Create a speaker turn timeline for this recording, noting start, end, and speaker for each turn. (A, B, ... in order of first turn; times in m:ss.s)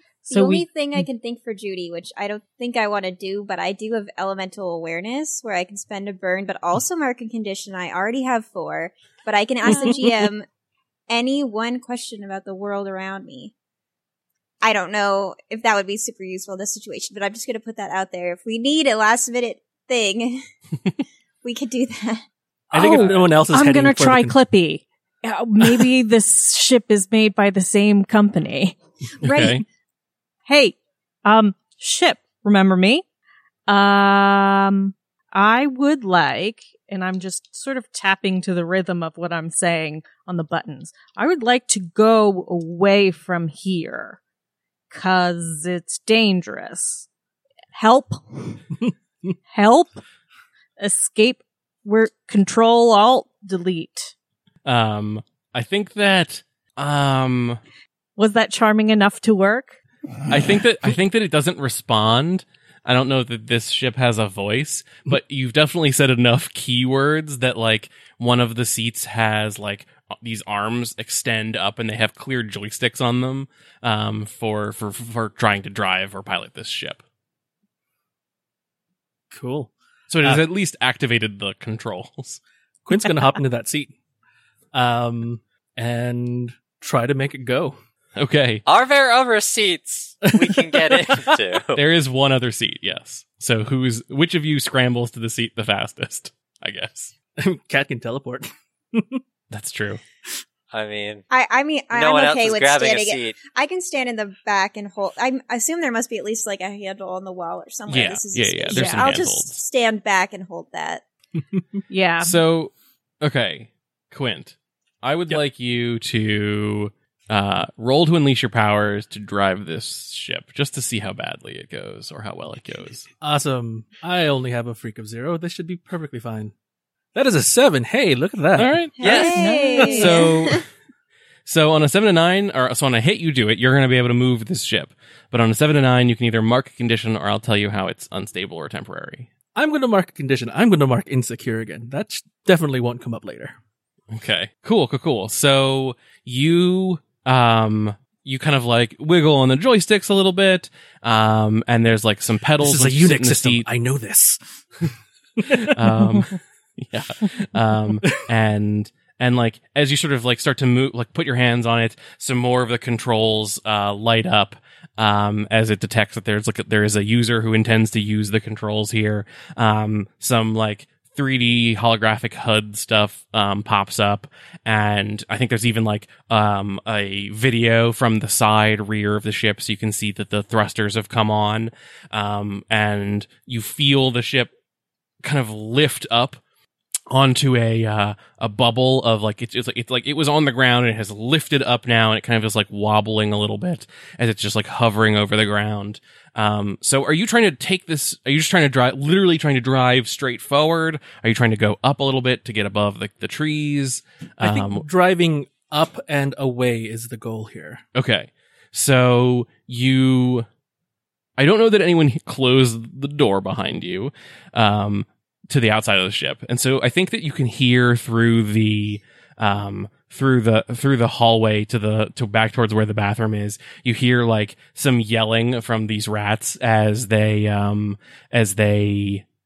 0:00.3-0:00.6 A
0:00.3-0:10.4 B
0:09.7-0:10.0 A
0:11.1-0:13.5 B
0:14.6-0:20.4 B
0:21.4-0:22.2 B
0:22.7-0:24.4 C
0:22.8-0:23.3 D
0:22.8-0:28.8 A
0:29.2-0:29.6 D
0:29.2-0:29.6 B
0:30.5-0:33.0 A
0:33.7-0:44.2 A
0:44.9-0:47.0 A
0:47.7-0:48.6 A
0:49.5-0:50.0 A
0:50.8-0:54.1 A
0:54.6-0:57.6 D
0:58.2-0:59.8 A
1:00.3-1:17.0 D
1:19.3-1:19.7 C
1:20.1-1:22.4 D
1:22.8-1:23.9 C
1:24.7-1:27.8 C
1:28.2-1:28.6 D
1:28.6-1:31.8 E
1:30.3-1:31.3 C
1:31.7-1:37.1 D
1:37.4-1:39.2 C
1:39.5-1:40.0 D
1:40.7-1:41.2 E
1:41.3-1:51.0 B
1:41.9-1:43.4 E
1:47.9-1:49.6 D
1:48.7-1:49.2 A
1:51.4-1:51.8 C
1:51.9-1:52.4 A
1:52.2-2:03.1 D
2:03.2-2:06.5 C
2:07.1-2:08.9 C
2:08.6-2:10.6 D
2:09.0-2:10.6 B
2:09.1-2:10.3 A
2:11.4-2:19.3 D
2:19.5-2:23.6 C
2:24.1-2:33.7 D
2:32.6-2:36.0 C
2:35.5-3:04.5 D
3:05.2-3:06.4 D
3:07.1-3:24.8 D
3:24.4-3:27.8 C
3:27.9-3:30.5 D
3:31.4-3:49.2 D